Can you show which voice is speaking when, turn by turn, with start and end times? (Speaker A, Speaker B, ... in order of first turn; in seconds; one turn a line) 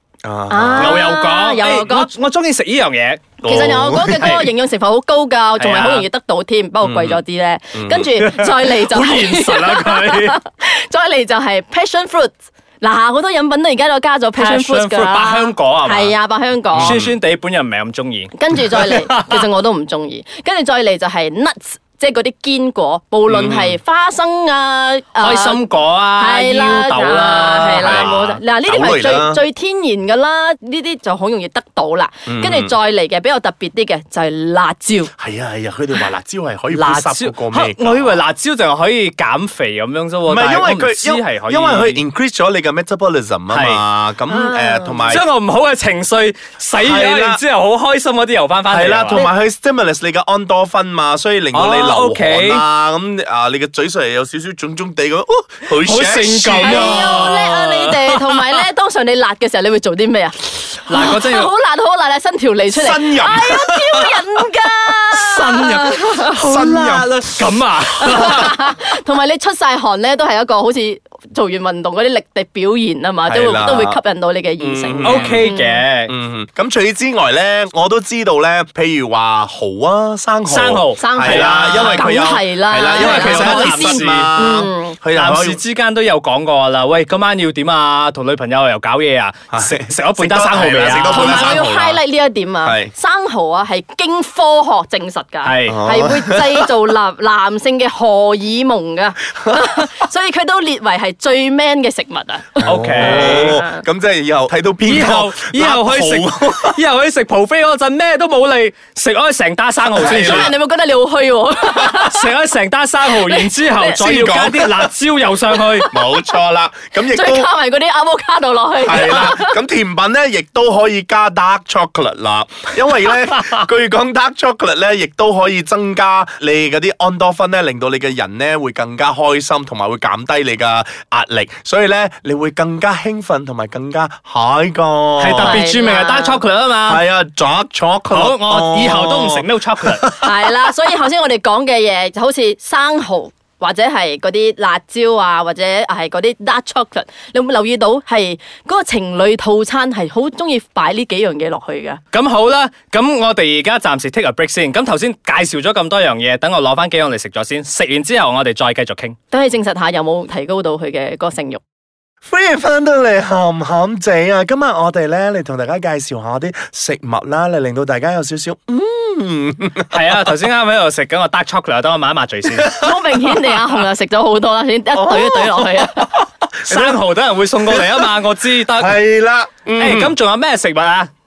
Speaker A: 0.2-1.1
Speaker B: 0.5-2.1
Speaker C: 0.8-3.4
Speaker A: 3.4-4.4
Speaker B: 3.4-16.9
Speaker C: 4.2-4.5
Speaker C: 5.6-6.0
Speaker A: 6.8-7.2
Speaker A: 7.7-8.1
Speaker C: 8.2-10.4
Speaker C: 14.3-16.1
Speaker A: 16.7-17.1
Speaker C: 16.7-19.4
Speaker B: 18.3-35.1
Speaker A: 23.3-23.8
Speaker C: 25.2-28.2
Speaker A: 27.8-29.4
Speaker A: 32.2-32.7
Speaker A: 35.2-38.2
Speaker C: 36.7-42.0
Speaker A: 40.2-45.2
Speaker C: 43.5-43.8
Speaker B: 44.3-45.2
Speaker C: 45.1-49.3
Speaker A: 46.8-47.4
Speaker A: 48.7-57.3
Speaker C: 51.5-52.6
Speaker C: 55.7-58.6
Speaker B: 56.5-66.3
Speaker C: 60.9-61.5
Speaker A: 62.7-64.2
Speaker C: 65.1-68.5
Speaker A: 66.3-67.5
Speaker B: 68.0-75.8
Speaker A: 73.2-74.0
Speaker A: 74.6-75.5
Speaker C: 75.0-76.1
Speaker A: 76.1-85.6
Speaker C: 80.5-82.0
Speaker B: 81.0-85.0
Speaker C: 82.9-84.3
Speaker C: 85.1-91.5
Speaker A: 89.5-92.0
Speaker B: 91.0-103.8
Speaker A: 92.6-92.9
Speaker C: 95.4-95.8
Speaker A: 95.7-96.7
Speaker A: 102.6-106.8
Speaker C: 102.6-103.6
Speaker C: 104.8-110.5
Speaker A: 109.9-110.5
Speaker B: 110.0-112.3
Speaker C: 111.8-115.9
Speaker B: 113.0-113.9
Speaker A: 113.8-114.9
Speaker A: 115.9-117.5
Speaker B: 117.0-119.6
Speaker A: 118.8-135.6
Speaker C: 135.2-137.0
Speaker B: 135.3-136.4
Speaker A: 136.8-140.3
Speaker C: 138.1-140.2
Speaker B: 140.2-152.0
Speaker C: 152.1-159.2
Speaker B: 159.3-161.6
Speaker A: 162.2-170.3
Speaker C: 169.9-172.7
Speaker A: 172.5-173.6
Speaker B: 172.7-176.1
Speaker A: 174.9-177.0
Speaker C: 176.7-179.0
Speaker A: 177.6-178.1
Speaker A: 178.7-180.2
Speaker C: 179.8-181.1